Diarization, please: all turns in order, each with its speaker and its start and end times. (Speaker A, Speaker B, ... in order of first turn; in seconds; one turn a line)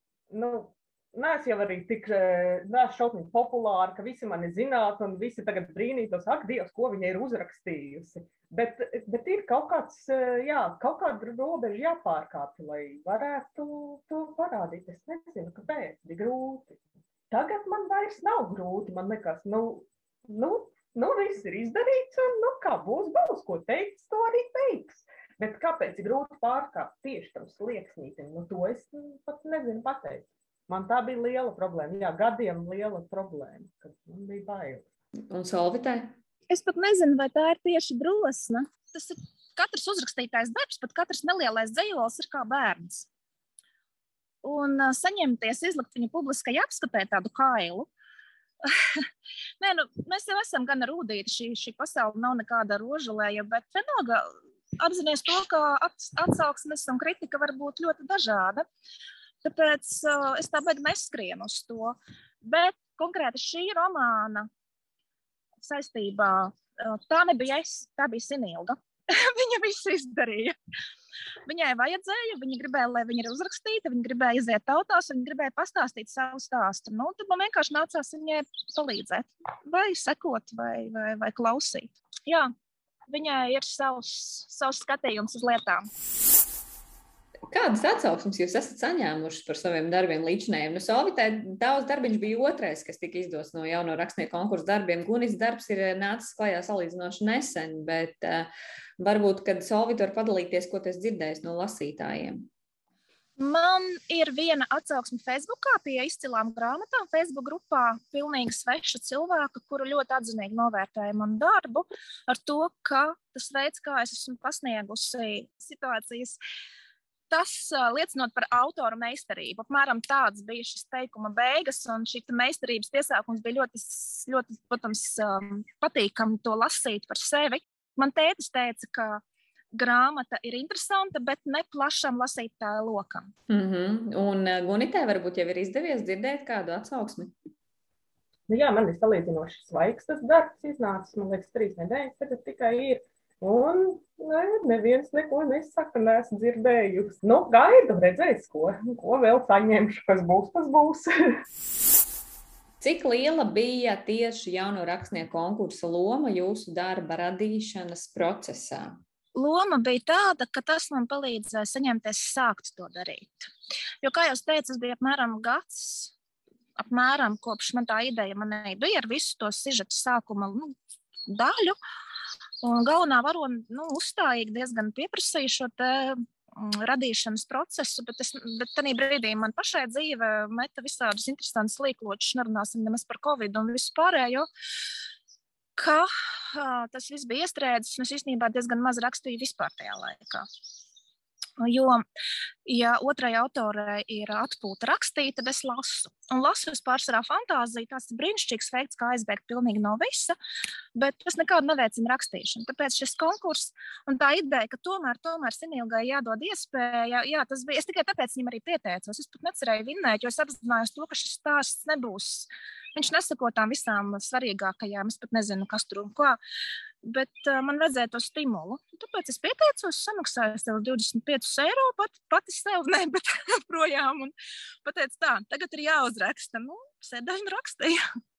Speaker A: 0.3-16.8
Speaker A: 17.3-34.8
Speaker B: 35.3-36.1
Speaker C: 36.5-43.1
Speaker C: 44.4-47.9
Speaker C: 48.6-49.0
Speaker C: 49.6-58.6
Speaker C: 59.4-64.5
Speaker C: 65.6-70.5
Speaker C: 71.5-82.5
Speaker C: 83.1-85.8
Speaker B: 87.5-98.5
Speaker B: 99.0-102.3
Speaker C: 103.4-116.4
Speaker C: 117.3-129.2
Speaker C: 129.7-133.3
Speaker B: 133.5-137.3
Speaker A: 138.5-151.1
Speaker B: 152.8-158.9
Speaker C: 159.3-163.5
Speaker C: 164.0-166.1
Speaker C: 166.8-170.7
Speaker C: 171.3-171.8
Speaker C: 172.6-184.5
Speaker C: 185.8-190.4
Speaker C: 191.6-192.0
Speaker C: 192.7-200.3
Speaker C: 200.9-216.4
Speaker C: 217.0-228.0